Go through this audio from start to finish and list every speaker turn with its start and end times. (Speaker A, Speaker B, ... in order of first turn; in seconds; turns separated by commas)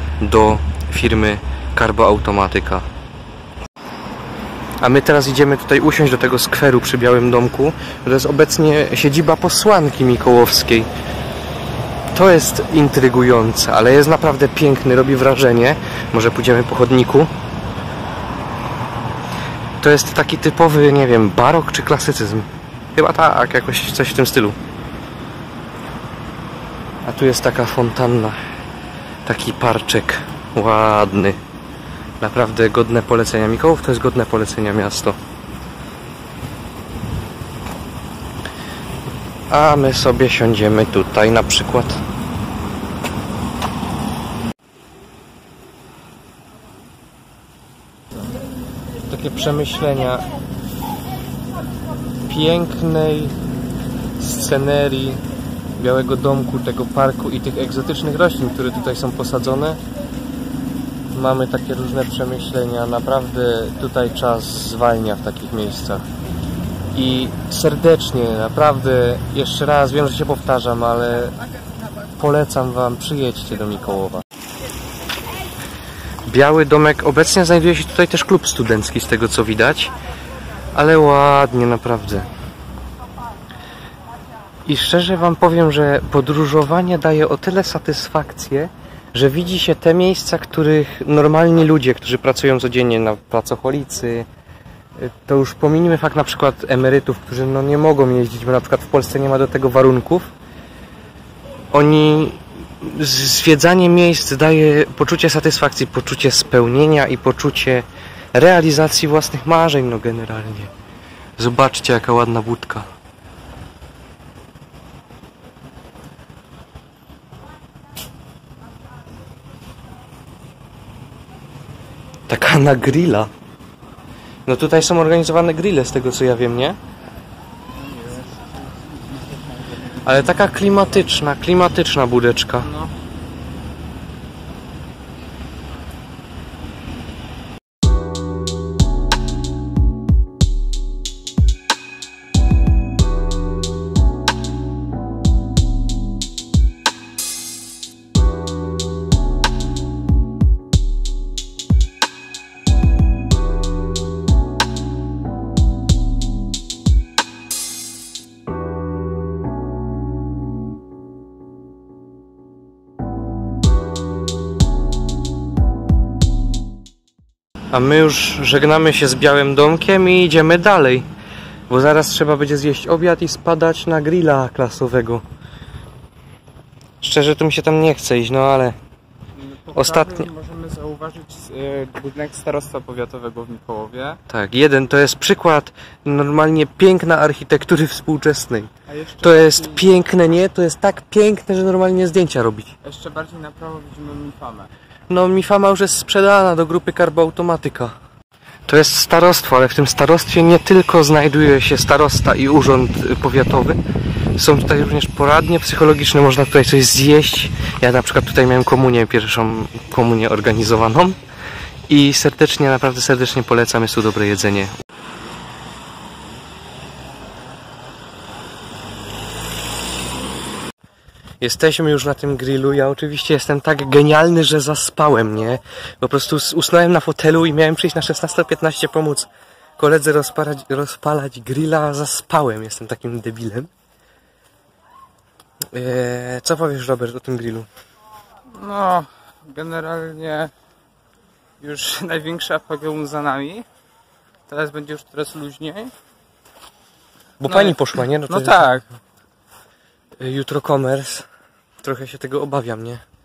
Speaker A: 0.2-2.8, Speaker A: 4.8-10.9, Speaker A: 12.1-17.3, Speaker A: 19.8-24.6, Speaker A: 27.0-28.4, Speaker A: 29.2-31.4, Speaker A: 32.2-35.1, Speaker A: 39.5-42.0, Speaker A: 49.1-50.3, Speaker A: 52.2-53.3, Speaker A: 54.2-55.2, Speaker A: 55.8-59.8, Speaker A: 61.1-66.0, Speaker A: 66.9-71.3, Speaker A: 72.1-74.2, Speaker A: 76.2-79.9, Speaker A: 80.7-82.3, Speaker A: 84.6-94.3, Speaker A: 95.0-100.3, Speaker A: 101.7-110.7, Speaker A: 111.4-112.9, Speaker A: 122.3-123.3, Speaker A: 124.5-126.8, Speaker A: 130.0-132.7, Speaker B: 132.6-132.9, Speaker A: 167.7-171.1, Speaker A: 171.7-175.2, Speaker A: 177.0-178.8, Speaker B: 179.4-184.2, Speaker A: 179.7-180.3, Speaker A: 184.3-188.7, Speaker B: 188.9-190.0, Speaker A: 189.2-192.7, Speaker B: 192.8-194.7, Speaker A: 195.1-197.9, Speaker A: 198.7-203.8, Speaker A: 204.3-211.2, Speaker A: 211.9-214.7, Speaker A: 221.4-233.7, Speaker A: 235.7-237.7, Speaker B: 238.5-240.5, Speaker B: 241.6-243.7, Speaker B: 244.5-245.9, Speaker A: 247.4-248.8, Speaker B: 247.4-248.8, Speaker A: 250.2-251.3, Speaker A: 251.8-253.0